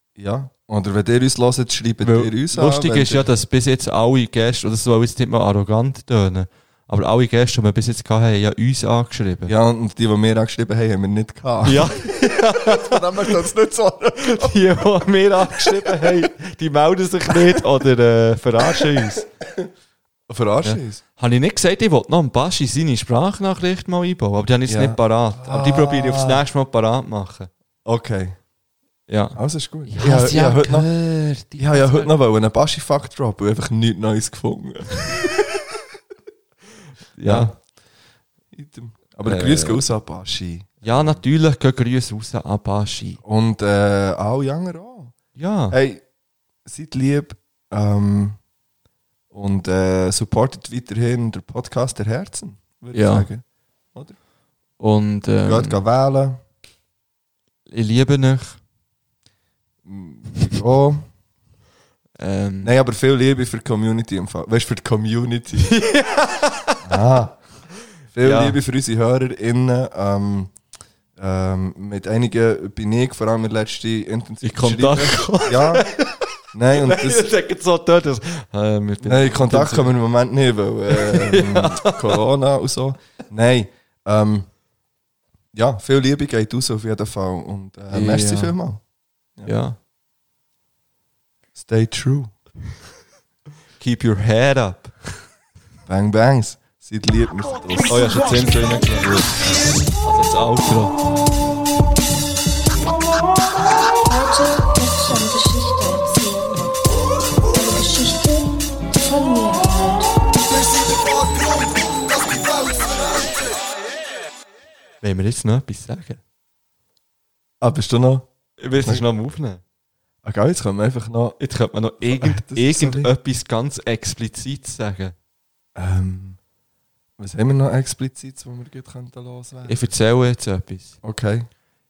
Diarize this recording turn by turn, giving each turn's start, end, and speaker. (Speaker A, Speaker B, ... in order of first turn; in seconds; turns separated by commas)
Speaker A: 0.2-3.3, Speaker B: 2.0-9.5, Speaker A: 9.4-11.9, Speaker B: 11.6-13.4, Speaker A: 12.6-14.7, Speaker B: 14.2-19.3, Speaker A: 15.4-16.3, Speaker A: 17.3-17.6, Speaker A: 20.3-21.0, Speaker B: 20.6-27.5, Speaker A: 24.7-26.4, Speaker A: 27.8-28.4, Speaker B: 29.1-32.1, Speaker A: 29.3-30.9, Speaker A: 31.6-35.6, Speaker B: 37.2-37.5, Speaker A: 37.2-37.5, Speaker A: 38.5-41.2, Speaker B: 39.2-39.8, Speaker B: 40.8-43.2, Speaker A: 43.2-45.1, Speaker B: 45.4-45.8, Speaker A: 45.7-46.0, Speaker A: 46.6-48.4, Speaker A: 49.3-54.1, Speaker B: 52.9-53.3, Speaker B: 54.8-55.8, Speaker A: 55.4-56.4, Speaker B: 57.7-58.6, Speaker A: 59.8-61.0, Speaker B: 62.2-62.7, Speaker A: 62.6-65.7, Speaker B: 65.5-66.8, Speaker A: 66.8-67.4, Speaker A: 68.1-70.5, Speaker B: 68.2-68.6, Speaker A: 71.2-75.8, Speaker B: 74.4-79.9, Speaker A: 76.5-77.3, Speaker A: 79.0-84.5, Speaker B: 80.9-82.2, Speaker A: 85.5-88.8, Speaker B: 87.9-88.6, Speaker B: 89.4-89.8, Speaker A: 91.5-92.3, Speaker B: 93.8-95.0, Speaker A: 95.8-98.5, Speaker B: 97.9-99.3, Speaker B: 100.0-100.9, Speaker C: 104.0-106.8, Speaker C: 107.5-110.1, Speaker C: 112.5-112.8, Speaker B: 115.0-116.2, Speaker A: 117.6-118.3, Speaker B: 118.6-119.6, Speaker A: 120.2-121.4, Speaker B: 121.4-125.1, Speaker A: 122.0-123.1, Speaker A: 125.7-126.4, Speaker A: 127.2-129.9, Speaker B: 129.7-130.9, Speaker A: 131.0-131.5